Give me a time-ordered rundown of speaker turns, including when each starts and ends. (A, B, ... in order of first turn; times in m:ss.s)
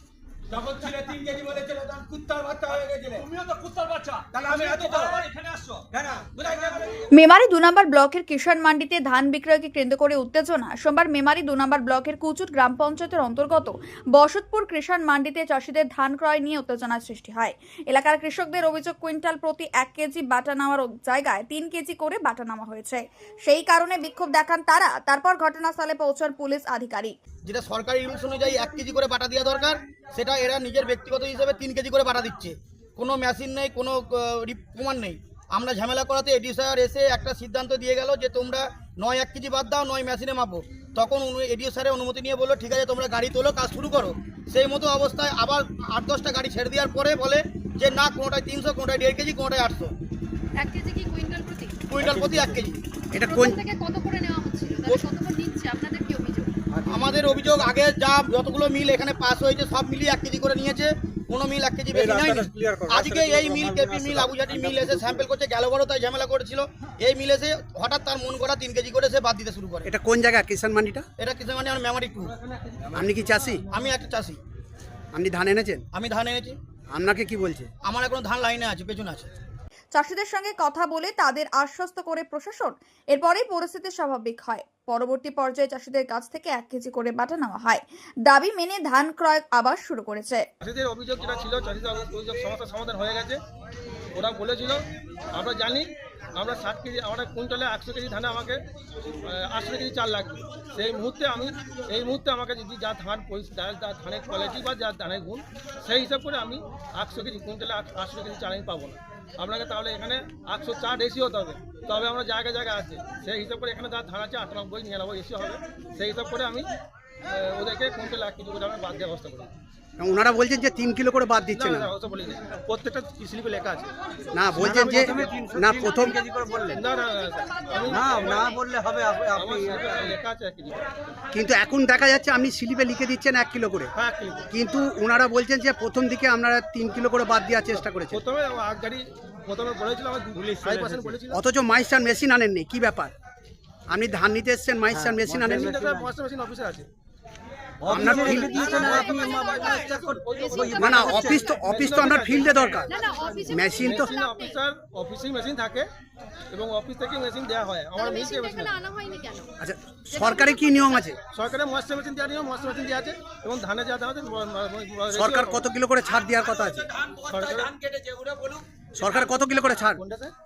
0:00.5-0:03.3 A
0:02.2-0:02.9 B
0:04.4-0:05.4 A
0:06.0-0:06.9 A
0:07.1-0:27.2 C
0:27.4-0:49.9 B
0:50.6-0:51.8 D
0:51.9-0:52.8 B
0:52.0-0:52.5 E
0:53.1-0:53.6 F
0:53.2-0:56.6 D
0:56.8-0:57.4 E
0:56.9-1:09.9 B
1:01.9-1:05.2 E
1:09.8-1:11.1 F
1:11.2-1:12.4 B
1:12.5-1:13.0 G
1:12.9-1:13.7 F
1:13.7-1:14.4 B
1:15.1-1:15.8 F
1:15.9-1:16.6 B
1:16.9-1:17.7 F
1:17.8-1:19.3 B
1:19.9-1:30.4 C
1:30.6-1:33.4 G
1:34.2-1:38.6 G
1:39.2-1:56.7 G
1:57.3-1:59.5 G
2:00.0-2:01.9 F
2:01.5-2:03.9 G
2:04.3-2:06.2 F
2:04.6-2:06.8 E
2:04.6-2:05.4 G
2:06.7-2:08.6 G
2:07.6-2:08.1 D
2:07.9-2:10.1 E
2:09.4-2:10.9 G
2:11.3-2:13.9 F
2:14.0-2:14.5 G
2:14.5-2:18.2 F
2:17.8-2:21.4 G
2:20.6-2:21.1 E
2:21.3-2:23.1 F
2:23.9-2:25.7 F
2:24.9-2:26.1 E
2:25.3-2:26.9 G
2:27.8-2:31.5 E
2:27.9-2:28.6 F
2:27.9-2:35.9 G
2:28.5-2:31.7 D
2:30.8-2:32.9 F
2:32.9-2:34.6 D
2:33.5-2:34.1 F
2:36.5-2:38.8 G
2:38.0-2:39.5 D
2:39.6-2:41.2 F
2:40.1-2:41.1 D
2:41.3-2:45.6 G
2:45.1-2:46.9 F
2:47.1-2:48.6 E
2:47.3-2:47.8 G
2:49.0-2:50.0 F
2:50.0-2:50.3 G